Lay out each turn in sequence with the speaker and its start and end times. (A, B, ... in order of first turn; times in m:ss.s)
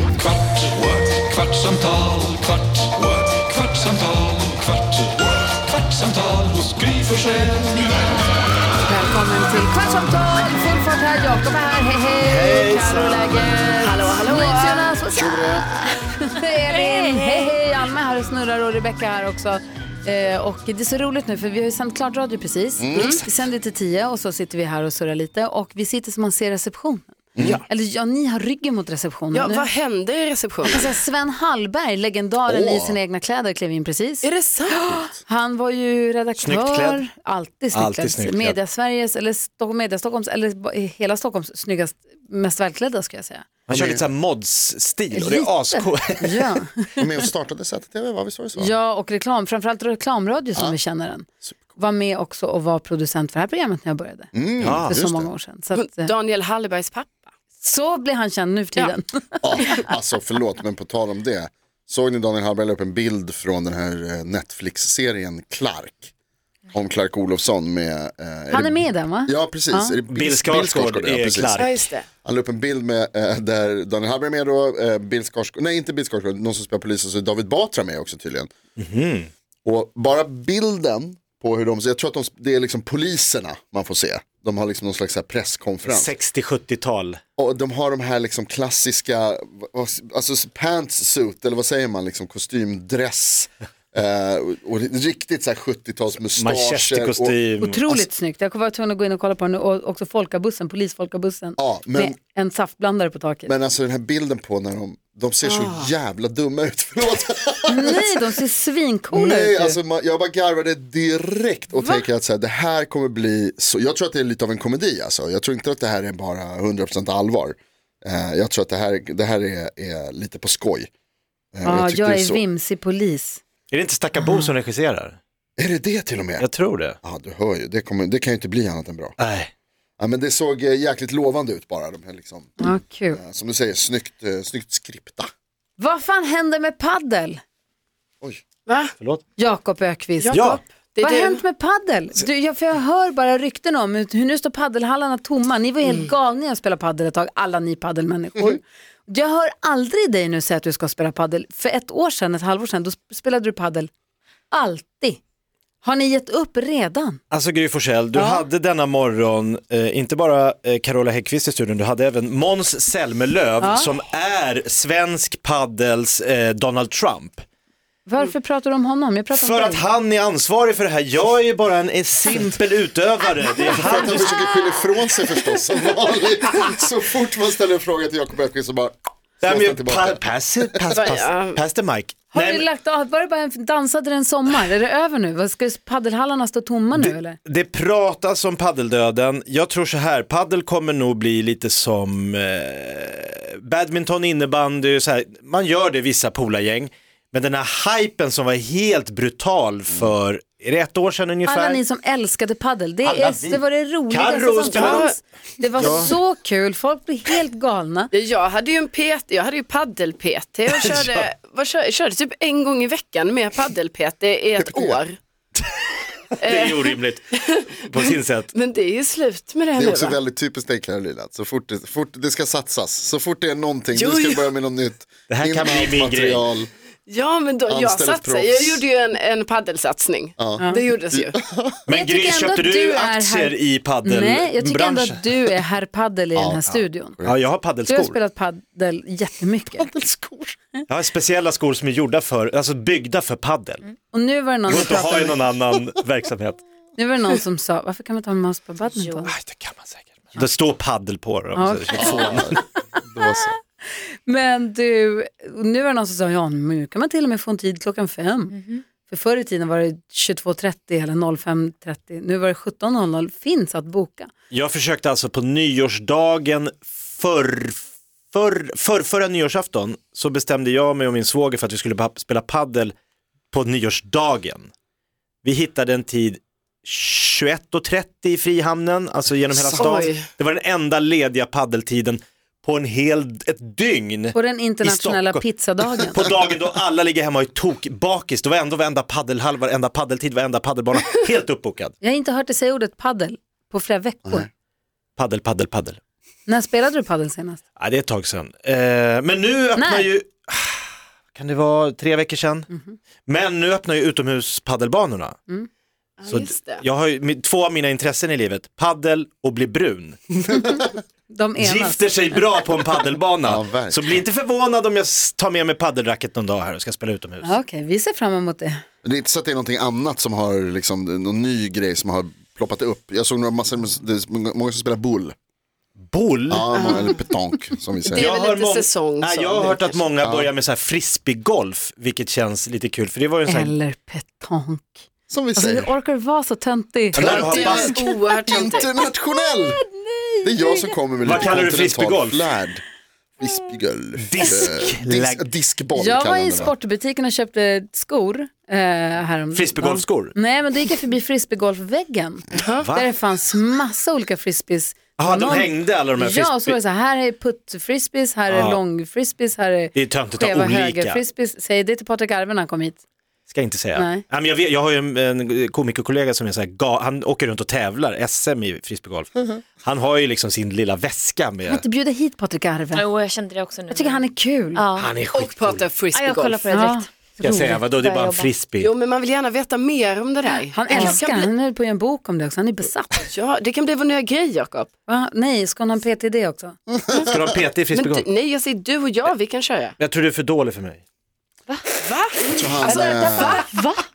0:00.5-0:04.2 A
0:08.8-0:27.1 B
0:12.2-0:13.7 C
0:13.8-0:14.9 D
0:15.1-0:15.7 E
0:16.7-0:17.5 F
0:22.8-0:23.2 E
0:27.6-0:29.7 B
0:29.3-0:30.9 D
0:30.6-0:43.5 B
0:32.5-0:33.0 E
0:34.2-0:34.9 D
0:36.4-0:37.0 C
0:37.7-0:38.6 C
0:43.7-0:46.5 C
0:43.7-0:44.0 E
0:45.1-0:47.0 B
0:47.0-0:48.7 E
0:48.6-0:54.3 B
0:54.3-0:55.3 E
0:54.6-0:55.0 C
0:54.9-0:56.1 B
0:55.7-0:57.3 D
0:57.6-0:59.6 B
0:59.4-1:06.1 E
1:06.7-1:11.7 E
1:08.5-1:10.0 B
1:10.1-1:11.9 C
1:11.6-1:12.1 D
1:12.2-1:18.5 E
1:18.8-1:19.3 C
1:19.6-1:26.1 E
1:25.8-1:27.2 C
1:27.4-1:37.4 E
1:36.3-1:38.0 C
1:37.6-1:43.5 B
1:41.6-1:42.2 E
1:43.4-1:48.3 E
1:45.4-1:45.9 D
1:47.7-1:49.8 B
1:49.1-2:00.9 E
2:01.5-2:02.4 E
2:01.6-2:03.4 B
2:03.7-2:05.2 C
2:05.6-2:06.5 E
2:06.4-2:07.0 C
2:07.0-2:09.2 E
2:09.2-2:09.5 C
2:10.0-2:12.6 E
2:12.6-2:13.2 B
2:13.1-2:15.3 E
2:15.8-2:17.4 B
2:18.7-2:18.9 D
2:19.4-2:33.9 B
2:20.2-2:21.4 D
2:20.3-2:20.6 C
2:34.5-2:35.2 B
2:35.8-2:37.2 B
2:37.3-2:47.4 C
2:38.1-2:38.4 B
2:43.6-2:43.9 B
2:48.0-2:49.8 B
2:49.3-2:54.4 C
2:53.7-3:00.2 E
2:59.4-3:02.6 C
3:00.9-3:01.6 D
3:02.3-3:07.4 B
3:06.9-3:21.8 C
3:21.4-3:28.1 B
3:23.0-3:25.1 C
3:24.7-3:25.1 D
3:25.8-3:26.1 C
3:28.1-3:35.2 D
3:30.7-3:31.3 C
3:34.6-3:35.0 E
3:36.4-3:38.5 C
3:36.4-3:40.2 D
3:39.8-3:46.7 E
3:43.9-3:44.5 D
3:45.3-3:46.4 C
3:47.1-3:51.3 D
3:47.7-3:48.8 E
3:50.4-3:51.8 E
3:51.9-3:55.5 C
3:51.9-3:57.2 B
3:56.3-3:57.4 E
3:57.2-3:58.2 C
3:57.9-3:59.9 B
3:59.7-4:00.6 E
4:00.9-4:03.8 C
4:04.1-4:05.4 B
4:04.7-4:06.6 C
4:07.0-4:09.3 B
4:09.0-4:09.3 F
4:09.3-4:12.6 C
4:11.5-4:12.7 B
4:12.0-4:13.5 E
4:13.2-4:24.3 B
4:18.5-4:18.8 F
4:24.5-4:32.9 C
4:33.5-4:34.7 C
4:35.4-4:45.4 C
4:39.5-4:40.0 E
4:39.8-4:40.2 D
4:44.3-4:46.3 B
4:46.0-4:51.9 C
4:52.0-4:54.5 B
4:54.2-4:54.5 E
4:55.2-4:56.0 C
4:56.4-4:57.6 B
4:57.8-5:02.7 C
4:59.8-5:00.1 B
5:02.7-5:03.0 B
5:03.2-5:05.4 C
5:06.2-5:06.8 D
5:06.3-5:10.3 C
5:11.3-5:12.4 B
5:11.6-5:17.6 C
5:13.4-5:14.2 E
5:17.4-5:18.8 B
5:19.0-5:25.3 E
5:26.1-5:26.9 C
5:26.5-5:28.3 E
5:26.7-5:27.1 D
5:28.1-5:30.0 D
5:28.1-5:33.7 C
5:30.2-5:30.5 E
5:33.4-5:35.0 B
5:35.3-5:35.9 E
5:35.5-5:37.8 B
5:37.1-5:39.8 E
5:37.1-5:38.0 C
5:37.2-5:38.9 D
5:40.0-5:40.9 B
5:40.4-5:42.8 E
5:41.2-5:42.5 C
5:43.4-5:46.7 E
5:44.2-5:45.5 C
5:45.9-6:03.0 B
5:49.5-5:50.3 C
5:52.5-5:52.9 D
5:52.7-5:53.1 C
5:55.2-5:56.8 C
5:58.5-5:58.8 C
5:59.9-6:01.2 C
6:03.5-6:11.8 C
6:03.9-6:04.2 B
6:11.6-6:13.0 B
6:12.9-6:15.1 F
6:13.9-6:14.8 B
6:15.0-6:15.9 C
6:15.3-6:16.9 D
6:16.1-6:18.6 F
6:16.8-6:17.7 B
6:17.4-6:18.9 C
6:18.8-6:21.5 D
6:20.7-6:23.3 B
6:20.9-6:21.2 F
6:23.2-6:24.9 D
6:25.1-6:26.8 B
6:26.9-6:27.6 E
6:27.2-6:28.3 C
6:27.9-6:29.9 D
6:30.0-6:31.0 C
6:32.0-6:33.9 D
6:32.5-6:33.6 E
6:33.7-6:34.0 B